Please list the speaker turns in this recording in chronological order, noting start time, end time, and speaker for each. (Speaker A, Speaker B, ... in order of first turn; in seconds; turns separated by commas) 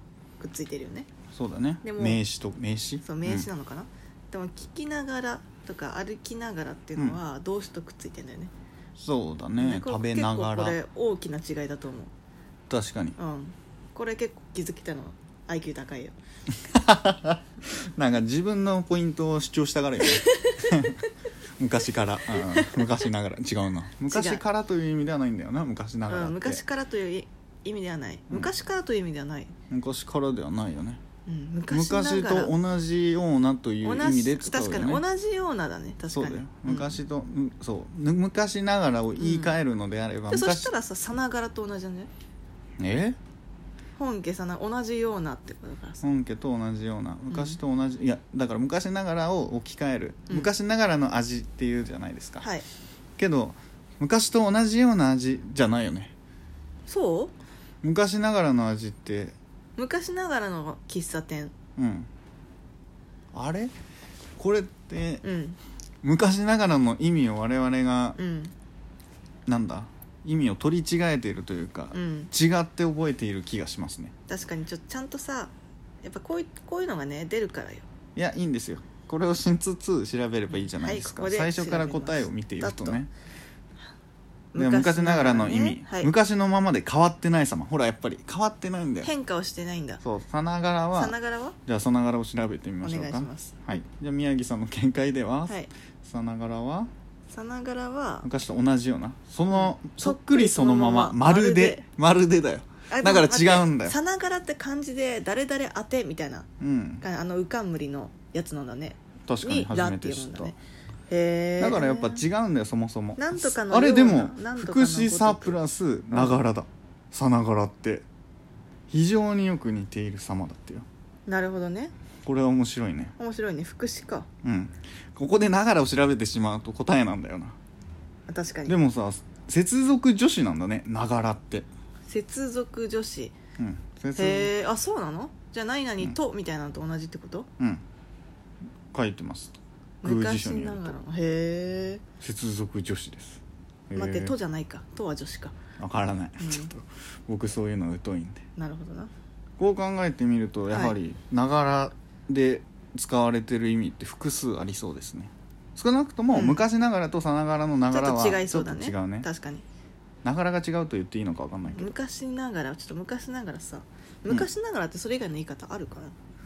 Speaker A: 0.4-1.1, Speaker B: 1.3-3.5, Speaker A: 1.8-2.2, Speaker A: 3.0-8.5, Speaker B: 9.0-10.8, Speaker A: 9.6-12.1, Speaker B: 12.7-13.2, Speaker A: 13.2-16.2, Speaker B: 16.6-21.0, Speaker A: 20.0-20.9, Speaker B: 21.6-26.6, Speaker A: 22.3-23.0, Speaker A: 24.1-24.4, Speaker A: 26.1-29.5, Speaker B: 29.7-31.0, Speaker A: 31.3-32.5, Speaker B: 31.7-35.0, Speaker A: 33.8-37.0, Speaker B: 36.1-40.7, Speaker A: 39.2-39.6, Speaker A: 40.3-42.1, Speaker B: 42.8-43.2, Speaker A: 44.0-46.0, Speaker B: 46.0-52.5, Speaker A: 47.3-47.6, Speaker A: 52.4-52.6, Speaker B: 53.2-56.1, Speaker A: 56.9-57.4, Speaker B: 57.8-59.4, Speaker A: 59.8-61.5, Speaker B: 61.8-62.1, Speaker B: 63.3-63.7, Speaker B: 64.4-65.2, Speaker A: 65.2-65.6, Speaker B: 66.0-68.2, Speaker A: 68.2-68.5, Speaker B: 69.5-74.1, Speaker A: 71.9-72.3, Speaker A: 74.3-77.9, Speaker B: 78.2-83.1, Speaker A: 80.5-83.0, Speaker A: 84.5-86.1, Speaker B: 84.6-89.1, Speaker A: 89.0-90.0, Speaker B: 90.0-91.2, Speaker A: 91.0-91.6, Speaker B: 91.7-96.9, Speaker A: 92.8-93.6, Speaker A: 97.3-98.3, Speaker B: 98.2-104.0, Speaker A: 99.5-101.8, Speaker A: 102.9-106.5, Speaker B: 106.6-107.0, Speaker A: 107.0-110.5, Speaker B: 109.3-110.6, Speaker A: 111.1-112.2, Speaker B: 111.6-118.0, Speaker A: 113.2-115.6, Speaker A: 116.1-116.4, Speaker B: 118.9-120.9, Speaker A: 121.3-121.9, Speaker B: 122.2-123.1, Speaker A: 123.2-124.3, Speaker B: 124.4-127.6, Speaker A: 128.3-128.8, Speaker B: 128.7-131.7, Speaker A: 132.1-133.4, Speaker B: 133.6-134.5, Speaker A: 134.2-137.5, Speaker B: 138.9-141.0, Speaker A: 140.0-142.0, Speaker B: 142.2-144.3, Speaker A: 143.9-145.6, Speaker B: 145.8-148.4, Speaker A: 146.4-146.7, Speaker A: 148.6-149.1, Speaker B: 149.6-159.3, Speaker A: 150.7-150.9, Speaker A: 156.3-156.6, Speaker A: 157.9-159.6, Speaker B: 160.2-161.9, Speaker A: 161.7-166.2